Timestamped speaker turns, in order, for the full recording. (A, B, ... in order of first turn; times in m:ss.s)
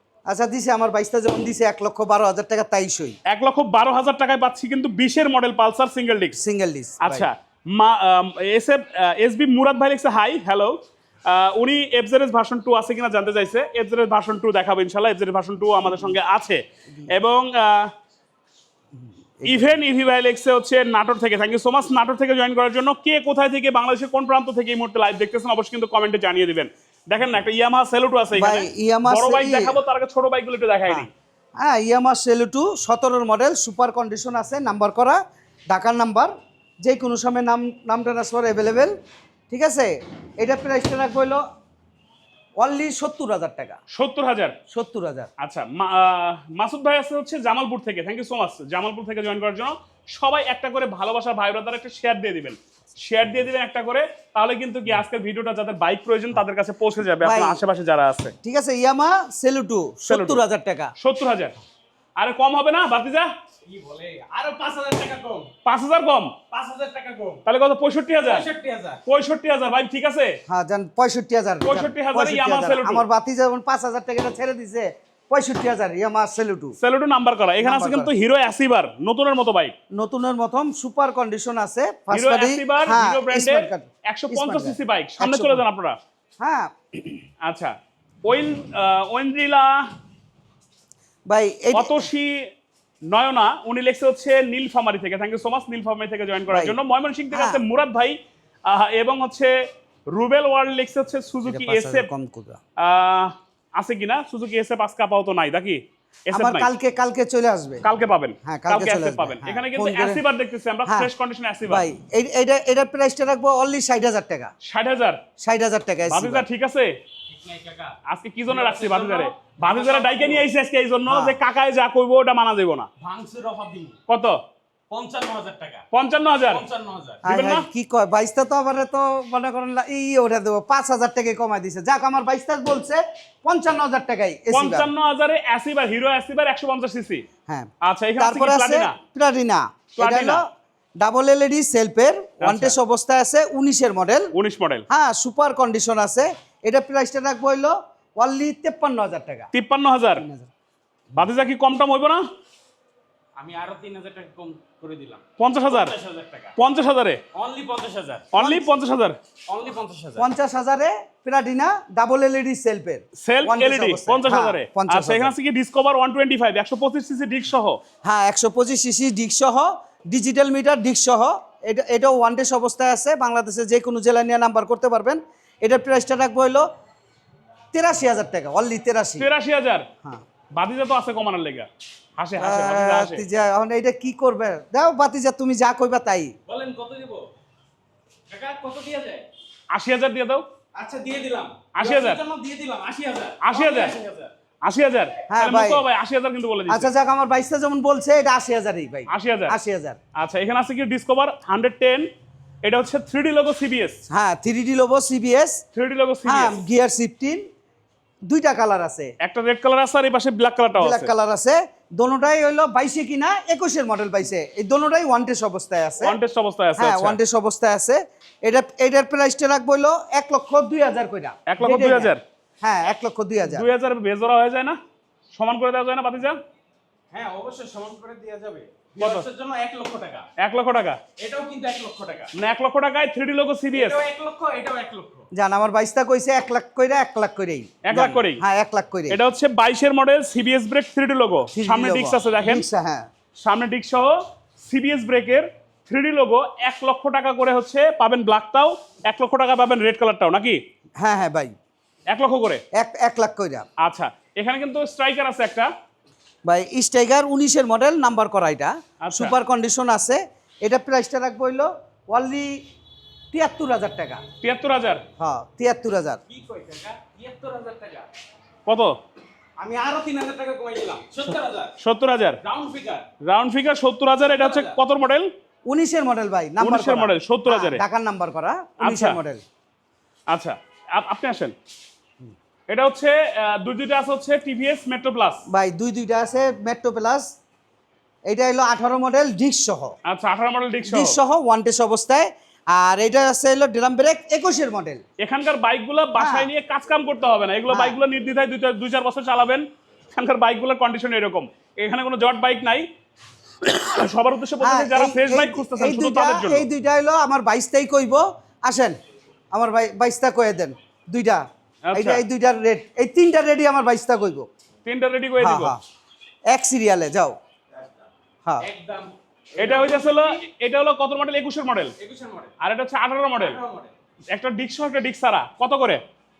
0:00.3-0:03.2 A
0:03.3-0:06.4 B
0:06.4-0:07.3 A
0:07.0-0:10.7 B
0:11.2-0:17.9 B
0:18.9-0:19.8 A
0:19.5-0:31.1 B
0:28.3-0:29.8 A
0:31.6-0:36.3 A
0:36.8-0:38.9 A
0:39.5-0:41.4 A
0:42.6-0:43.8 A
0:43.9-0:44.5 B
0:44.7-0:45.3 A
0:45.4-0:58.3 B
0:57.2-0:57.6 A
0:58.4-1:00.9 A
1:00.1-1:00.4 B
1:01.0-1:01.6 B
1:02.2-1:03.3 B
1:03.6-1:05.5 C
1:05.6-1:06.3 B
1:06.5-1:07.4 C
1:07.4-1:08.5 B
1:08.2-1:09.0 C
1:09.0-1:10.4 B
1:10.5-1:16.8 A
1:11.6-1:13.0 B
1:16.8-1:19.7 B
1:17.6-1:18.1 A
1:19.9-1:25.6 A
1:22.1-1:26.0 B
1:26.4-1:26.7 A
1:27.4-1:27.7 B
1:28.2-1:29.8 B
1:31.3-1:32.1 A
1:31.7-1:32.4 B
1:33.1-1:38.2 B
1:36.5-1:36.8 A
1:37.3-1:37.6 A
1:38.7-1:39.5 B
1:40.1-1:42.1 B
1:41.4-1:42.6 A
1:42.8-1:46.7 B
1:46.3-1:47.8 A
1:47.8-1:51.8 B
1:48.4-1:50.2 A
1:50.8-1:51.1 A
1:51.6-1:54.5 A
1:54.6-1:55.2 B
1:55.4-1:56.4 A
1:56.1-1:56.9 B
1:57.3-1:58.0 C
1:58.1-2:02.9 B
1:58.5-2:00.4 C
2:01.1-2:01.4 A
2:03.0-2:04.0 C
2:04.1-2:04.4 B
2:04.9-2:05.8 C
2:05.9-2:06.6 B
2:06.5-2:07.2 C
2:07.2-2:14.9 A
2:07.2-2:07.6 B
2:14.5-2:17.2 B
2:17.5-2:20.4 A
2:17.8-2:19.0 B
2:20.0-2:20.4 B
2:21.0-2:24.3 A
2:22.4-2:22.8 B
2:24.3-2:24.8 B
2:24.9-2:29.5 A
2:29.5-2:30.2 B
2:30.2-2:30.5 A
2:31.1-2:32.2 B
2:33.4-2:36.5 C
2:35.4-2:35.9 B
2:36.6-2:37.2 B
2:37.3-2:38.4 C
2:38.3-2:39.2 B
2:39.5-2:40.2 C
2:40.2-2:45.3 A
2:43.2-2:47.8 B
2:48.0-2:56.6 A
2:57.7-2:59.3 A
2:59.2-2:59.8 B
3:00.5-3:03.2 B
3:02.4-3:06.3 A
3:06.5-3:07.3 C
3:08.3-3:09.2 C
3:09.7-3:10.4 B
3:10.7-3:14.3 C
3:11.7-3:12.2 B
3:13.4-3:14.0 B
3:14.6-3:16.9 B
3:15.3-3:15.8 A
3:16.7-3:20.0 A
3:19.1-3:19.6 B
3:20.2-3:22.0 B
3:22.6-3:24.0 B
3:24.1-3:25.6 A
3:25.7-3:26.6 B
3:26.2-3:27.4 A
3:28.3-3:29.1 A
3:29.2-3:31.1 B
3:30.8-3:36.2 A
3:36.0-3:37.2 B
3:36.8-3:43.7 A
3:41.5-3:42.2 B
3:43.4-3:44.8 B
3:45.3-3:46.4 B
3:47.1-3:50.3 C
3:49.0-3:49.3 B
3:50.4-3:51.0 B
3:51.2-3:52.3 C
3:52.3-3:54.0 B
3:53.7-3:55.3 C
3:55.3-3:59.2 A
3:57.8-3:58.4 B
3:59.1-4:02.6 B
4:01.5-4:03.1 A
4:03.4-4:10.6 B
4:11.0-4:11.5 A
4:12.1-4:12.6 B
4:12.8-4:13.7 A
4:13.8-4:15.7 B
4:16.4-4:22.6 A
4:19.0-4:19.3 B
4:23.3-4:24.2 A
4:24.4-4:25.0 B
4:25.2-4:26.2 A
4:26.3-4:28.1 C
4:28.7-4:28.9 B
4:29.6-4:31.7 C
4:31.8-4:32.4 B
4:32.4-4:33.1 C
4:33.2-4:35.3 B
4:34.2-4:34.8 C
4:35.7-4:39.4 A
4:36.6-4:37.8 B
4:38.8-4:39.2 B
4:40.3-4:41.5 B
4:42.7-4:45.4 B
4:45.5-4:47.3 A
4:48.3-4:50.0 A
4:50.0-4:51.2 B
4:50.9-4:55.0 A
4:55.2-5:02.8 B
4:56.2-4:56.5 A
4:57.7-4:58.0 A
5:03.6-5:06.6 B
5:04.6-5:08.9 A
5:09.5-5:11.4 A
5:11.9-5:12.2 B
5:11.9-5:14.5 A
5:14.8-5:15.8 B
5:15.4-5:15.8 A
5:16.5-5:17.3 A
5:18.6-5:20.4 C
5:19.6-5:21.9 B
5:22.0-5:22.5 C
5:22.6-5:23.6 B
5:23.4-5:23.9 C
5:24.3-5:26.0 B